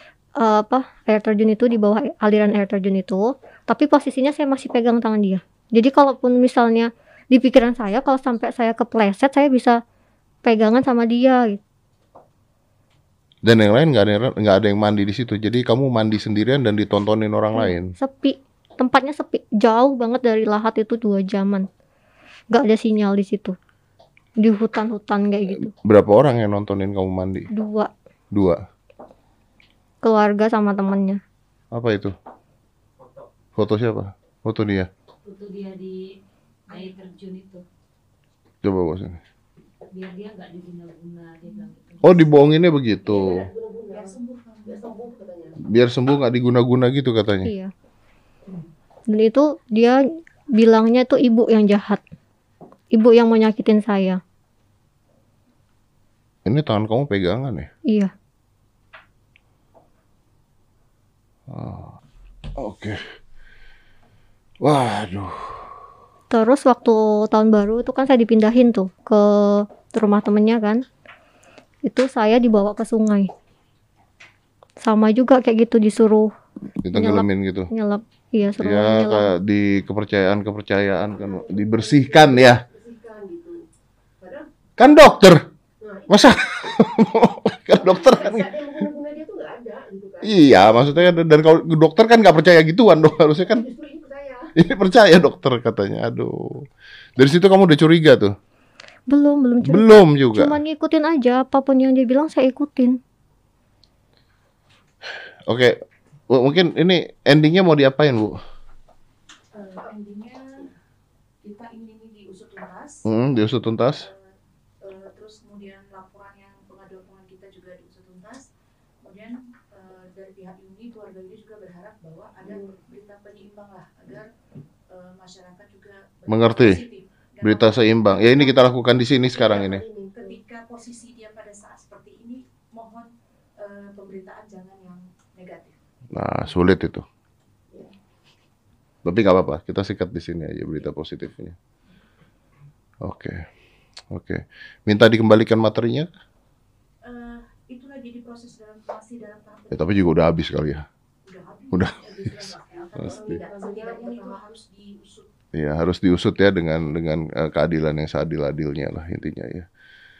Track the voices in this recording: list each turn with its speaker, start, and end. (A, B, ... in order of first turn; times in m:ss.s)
0:00.4-0:09.8 A
0:10.4-0:11.6 A
0:13.4-0:17.9 B
0:17.5-0:21.7 A
0:22.5-0:23.6 A
0:24.4-0:25.7 A
0:25.5-0:27.5 B
0:27.5-0:27.9 A
0:28.3-0:28.6 B
0:30.0-0:31.2 A
0:31.7-0:32.1 B
0:33.5-0:34.9 B
0:35.2-0:36.1 C
0:36.7-0:37.6 C
0:38.6-0:39.2 B
0:39.9-0:42.2 C
0:42.0-0:43.4 B
0:43.0-0:45.6 D
0:43.9-0:44.9 E
0:45.6-0:47.5 B
0:47.4-0:47.7 A
0:49.1-0:50.0 A
0:50.5-0:52.0 A
0:52.9-0:54.2 A
0:56.4-0:57.7 B
0:57.9-0:58.1 A
1:01.5-1:01.9 B
1:02.6-1:03.0 B
1:04.6-1:05.6 B
1:06.3-1:10.8 A
1:11.8-1:13.3 A
1:14.8-1:16.3 A
1:16.8-1:17.7 B
1:16.9-1:19.3 A
1:18.6-1:22.6 B
1:21.1-1:23.6 D
1:24.2-1:24.4 D
1:24.8-1:25.4 B
1:25.8-1:26.8 D
1:26.1-1:28.8 B
1:27.8-1:31.1 D
1:30.2-1:33.6 B
1:33.4-1:34.5 D
1:34.6-1:36.7 B
1:37.2-1:38.3 B
1:39.1-1:43.0 A
1:39.6-1:40.6 B
1:45.5-1:45.8 B
1:46.3-1:48.4 B
1:49.5-1:50.7 E
1:51.4-1:53.0 E
1:53.0-1:54.1 B
1:53.9-1:58.5 E
1:59.0-2:04.3 E
2:02.4-2:02.7 D
2:04.9-2:08.6 E
2:06.3-2:06.8 B
2:07.4-2:09.8 B
2:09.3-2:10.4 D
2:10.1-2:15.8 E
2:16.1-2:17.0 B
2:19.0-2:21.6 B
2:23.0-2:23.5 B
2:24.1-2:26.1 B
2:27.0-2:30.2 E
2:29.7-2:30.8 B
2:31.2-2:35.3 E
2:31.7-2:33.4 B
2:32.9-2:34.4 D
2:35.5-2:39.7 B